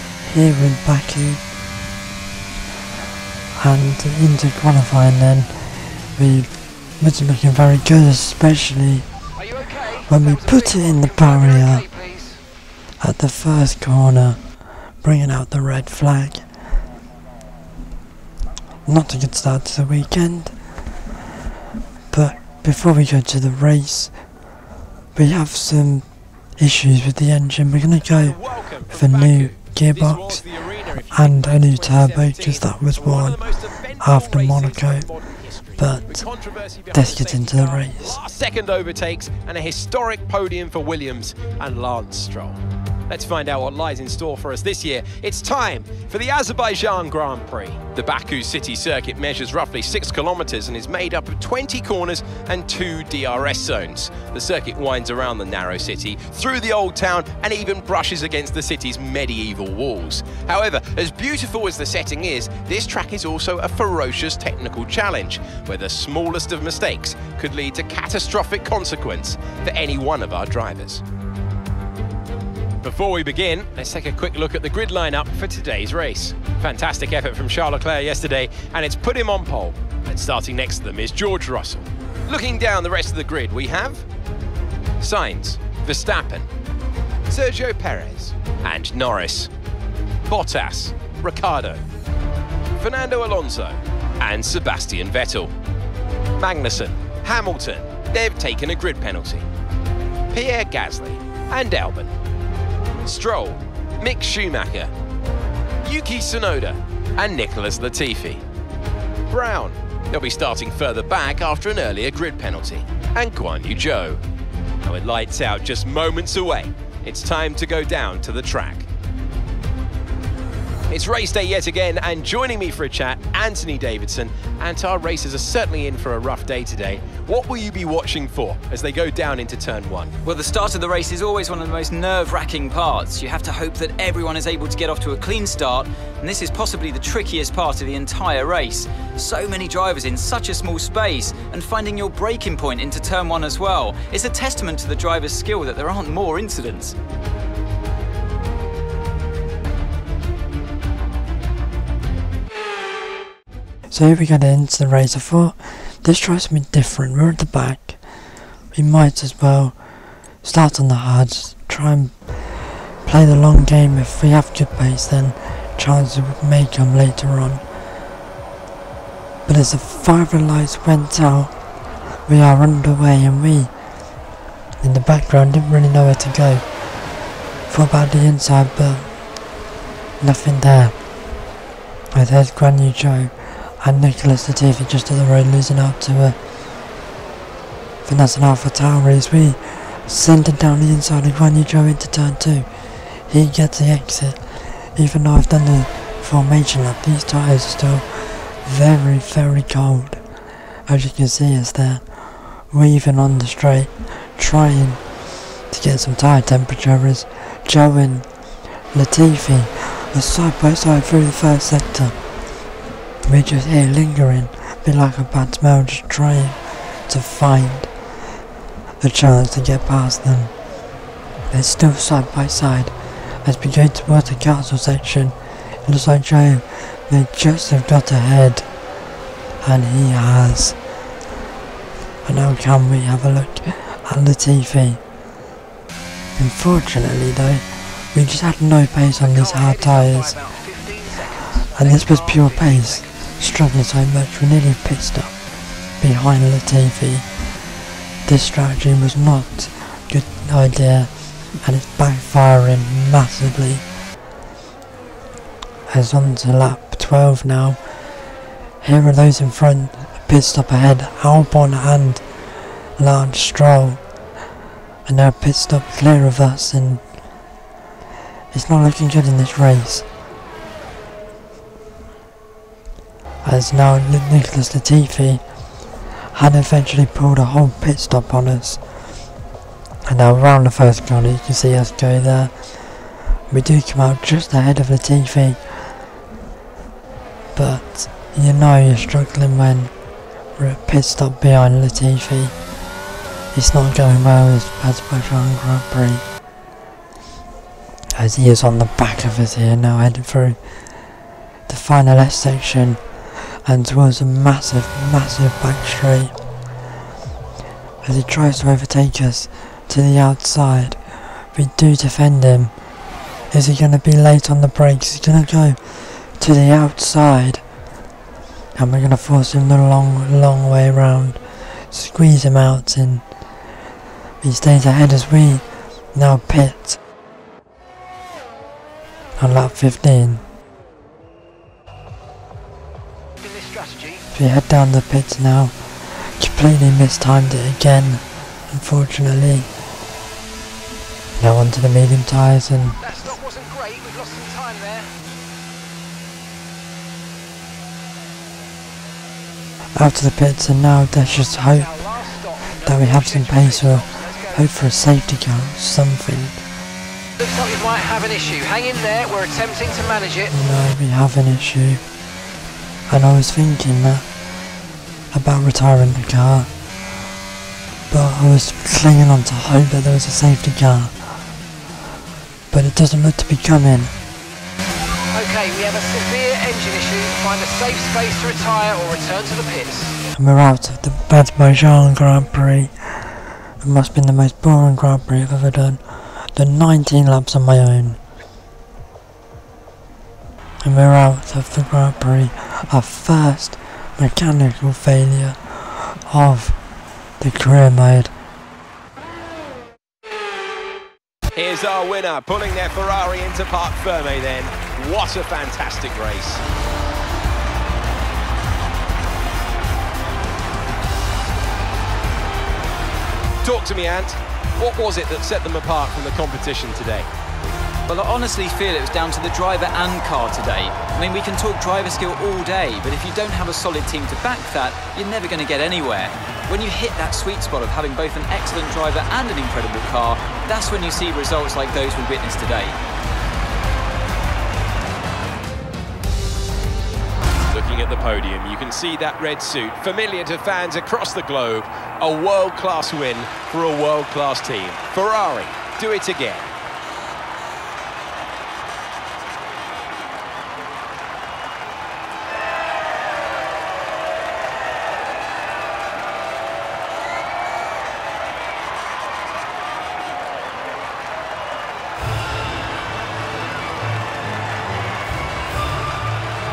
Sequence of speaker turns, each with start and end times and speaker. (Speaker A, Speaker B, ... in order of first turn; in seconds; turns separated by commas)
Speaker A: 0.2-1.4, Speaker A: 3.6-9.1, Speaker B: 9.4-12.3, Speaker A: 9.9-11.9, Speaker A: 13.0-14.4, Speaker A: 15.0-16.4, Speaker A: 18.9-20.5, Speaker A: 22.1-24.1, Speaker A: 25.1-26.1, Speaker A: 26.6-30.4, Speaker C: 27.9-71.0, Speaker A: 31.1-33.5, Speaker A: 34.0-35.1, Speaker A: 35.8-36.2, Speaker A: 36.9-38.2, Speaker C: 72.8-84.0, Speaker C: 85.0-86.5, Speaker C: 87.3-89.5, Speaker C: 90.3-91.8, Speaker C: 92.8-95.5, Speaker C: 96.4-99.5, Speaker C: 100.3-102.1, Speaker C: 103.0-104.9, Speaker C: 105.8-108.4, Speaker C: 109.3-114.2, Speaker C: 114.8-118.9, Speaker C: 120.9-130.1, Speaker D: 130.2-146.9, Speaker A: 153.9-158.0, Speaker A: 158.7-159.8, Speaker A: 160.4-167.6, Speaker A: 169.4-171.5, Speaker A: 172.2-173.7, Speaker A: 174.8-176.6, Speaker A: 177.7-179.1, Speaker A: 180.2-180.9, Speaker A: 182.1-186.4, Speaker A: 188.0-200.2, Speaker A: 200.9-205.0, Speaker A: 205.7-208.3, Speaker A: 208.9-212.2, Speaker A: 213.3-217.9, Speaker A: 219.0-220.5, Speaker A: 221.5-228.7, Speaker A: 229.6-230.8, Speaker A: 232.2-235.0, Speaker A: 236.4-240.4, Speaker B: 239.3-242.8, Speaker A: 241.6-245.4, Speaker A: 246.0-247.3, Speaker A: 248.2-253.8, Speaker A: 255.9-257.8, Speaker A: 258.8-262.2, Speaker A: 263.0-264.0, Speaker A: 265.1-267.0, Speaker A: 268.5-270.1, Speaker A: 273.4-275.4, Speaker A: 276.3-278.8, Speaker A: 280.1-282.6, Speaker A: 283.5-285.6, Speaker A: 287.5-289.9, Speaker A: 290.6-292.5, Speaker A: 293.5-296.2, Speaker A: 298.1-300.6, Speaker A: 301.7-303.0, Speaker A: 303.6-306.3, Speaker A: 308.0-311.0, Speaker A: 311.5-312.7, Speaker A: 313.5-317.6, Speaker A: 318.8-323.2, Speaker A: 324.4-327.0, Speaker A: 329.4-330.4, Speaker B: 333.4-334.2, Speaker A: 334.3-339.7, Speaker A: 341.4-343.1, Speaker B: 343.0-345.1, Speaker A: 349.9-352.1, Speaker B: 351.9-354.5, Speaker A: 352.7-356.6, Speaker B: 357.4-360.5, Speaker A: 360.5-362.0, Speaker A: 363.1-364.3, Speaker A: 365.3-366.7, Speaker A: 368.1-371.3, Speaker A: 372.7-374.1, Speaker B: 375.3-380.2, Speaker A: 380.3-388.2, Speaker A: 390.8-396.8, Speaker A: 397.4-398.3, Speaker C: 401.6-406.6, Speaker C: 413.7-417.3, Speaker D: 418.1-432.9, Speaker C: 437.7-446.7